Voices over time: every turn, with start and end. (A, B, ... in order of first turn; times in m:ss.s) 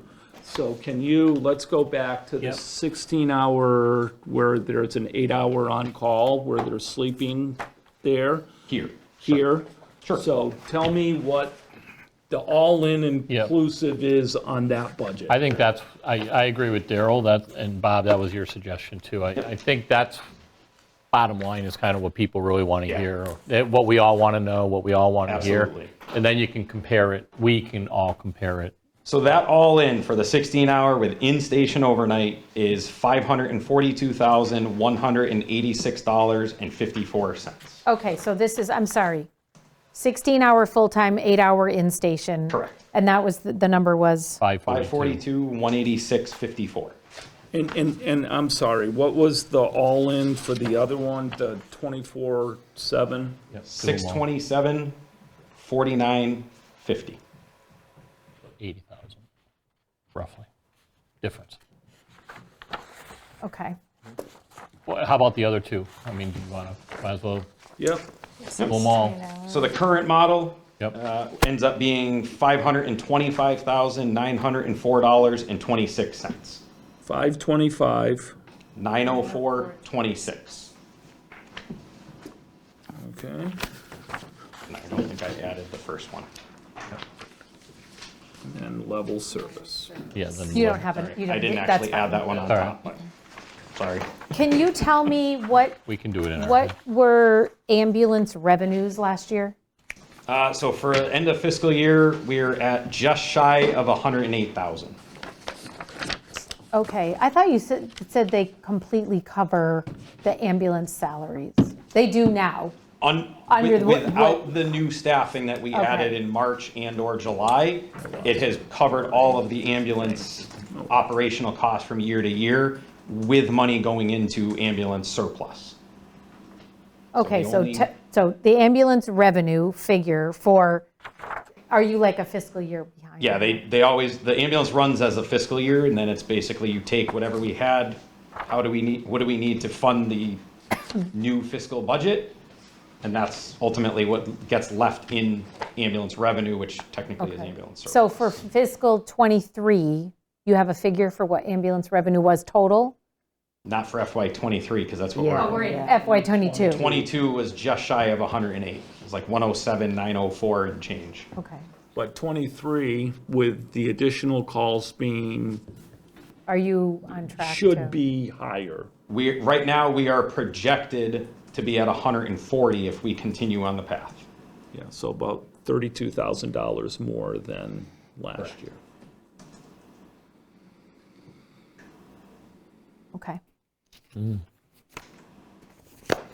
0:00.4-0:08.5 A
0:08.7-0:09.4 B
0:09.2-0:11.6 A
0:12.3-0:15.5 A
0:13.3-0:13.5 C
0:15.3-0:20.2 C
0:21.1-0:28.7 C
0:25.3-0:25.9 B
0:29.0-0:37.8 B
0:37.9-0:39.3 D
0:39.9-0:44.4 D
0:42.5-0:42.8 B
0:44.4-0:45.2 C
0:44.6-0:47.0 B
0:47.5-0:53.4 A
0:53.6-0:54.2 C
0:53.7-0:55.0 B
0:55.6-0:57.2 B
0:58.6-0:59.2 C
1:00.1-1:00.5 C
1:01.2-1:01.6 C
1:03.4-1:03.8 D
1:04.9-1:07.5 C
1:07.8-1:08.0 A
1:08.4-1:09.6 D
1:08.6-1:08.9 B
1:08.6-1:09.2 C
1:09.4-1:16.6 B
1:17.0-1:18.4 A
1:18.8-1:20.7 B
1:22.9-1:23.6 A
1:24.7-1:26.3 B
1:28.4-1:30.2 A
1:30.1-1:30.9 C
1:30.5-1:32.6 D
1:30.7-1:33.1 B
1:32.4-1:32.8 C
1:33.7-1:34.1 B
1:34.3-1:35.8 D
1:35.8-1:36.7 C
1:36.3-1:39.6 D
1:40.3-1:45.0 B
1:46.7-1:52.8 D
1:53.0-2:05.8 B
1:53.5-1:54.5 D
1:55.7-1:56.2 D
1:58.0-2:01.0 A
2:07.1-2:10.9 D
2:07.2-2:07.9 B
2:11.7-2:13.6 D
2:13.2-2:20.4 B
2:21.0-2:22.4 B
2:23.0-2:28.4 B
2:27.2-2:33.0 D
2:33.7-2:35.7 B
2:35.2-2:37.1 A
2:35.4-2:36.8 D
2:36.7-2:41.3 B
2:41.4-2:41.7 D
2:42.0-2:45.6 A
2:46.5-2:48.0 D
2:47.1-2:48.9 A
2:49.1-2:54.3 B
2:54.7-2:58.8 A
3:03.2-3:03.4 D
3:04.2-3:04.4 C